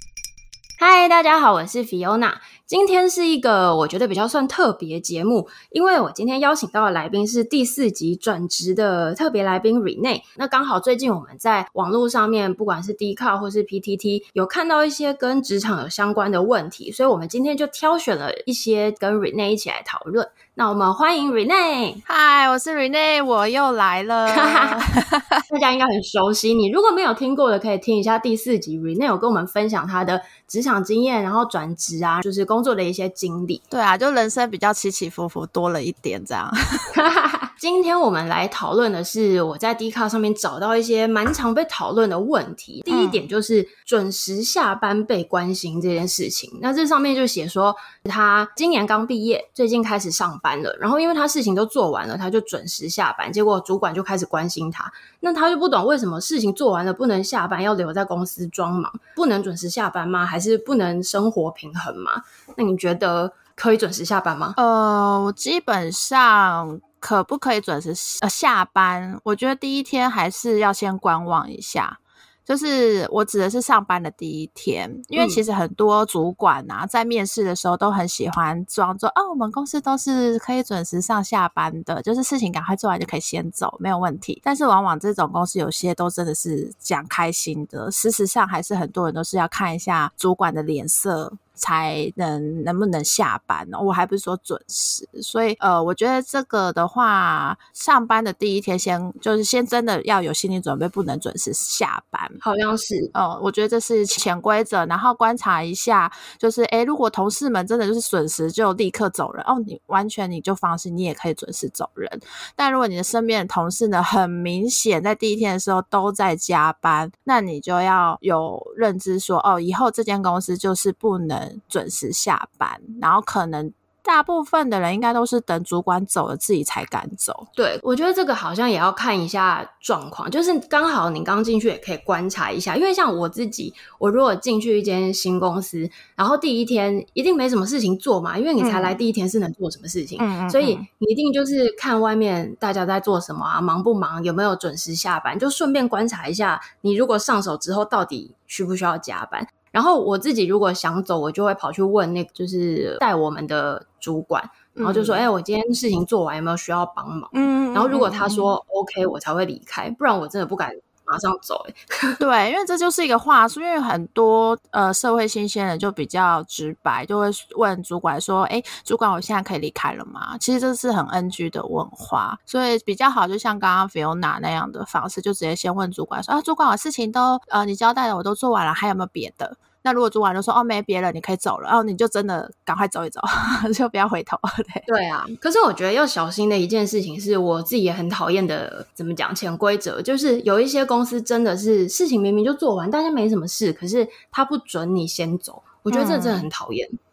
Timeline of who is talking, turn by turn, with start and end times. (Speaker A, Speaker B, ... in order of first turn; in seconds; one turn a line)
Speaker A: 0.8-22.0
Speaker B: 22.1-25.4
Speaker A: 24.3-24.8
Speaker A: 25.5-33.6
Speaker B: 33.7-36.9
Speaker A: 37.0-64.6
Speaker B: 42.9-43.2
Speaker B: 64.6-102.4
Speaker A: 75.2-75.4
Speaker A: 102.4-103.1
Speaker B: 103.1-127.5
Speaker A: 127.5-162.2
Speaker B: 138.6-139.0
Speaker B: 140.2-140.8
Speaker B: 154.8-155.3
Speaker B: 157.3-158.6
Speaker B: 162.2-184.8
Speaker A: 184.9-196.9
Speaker B: 195.9-196.5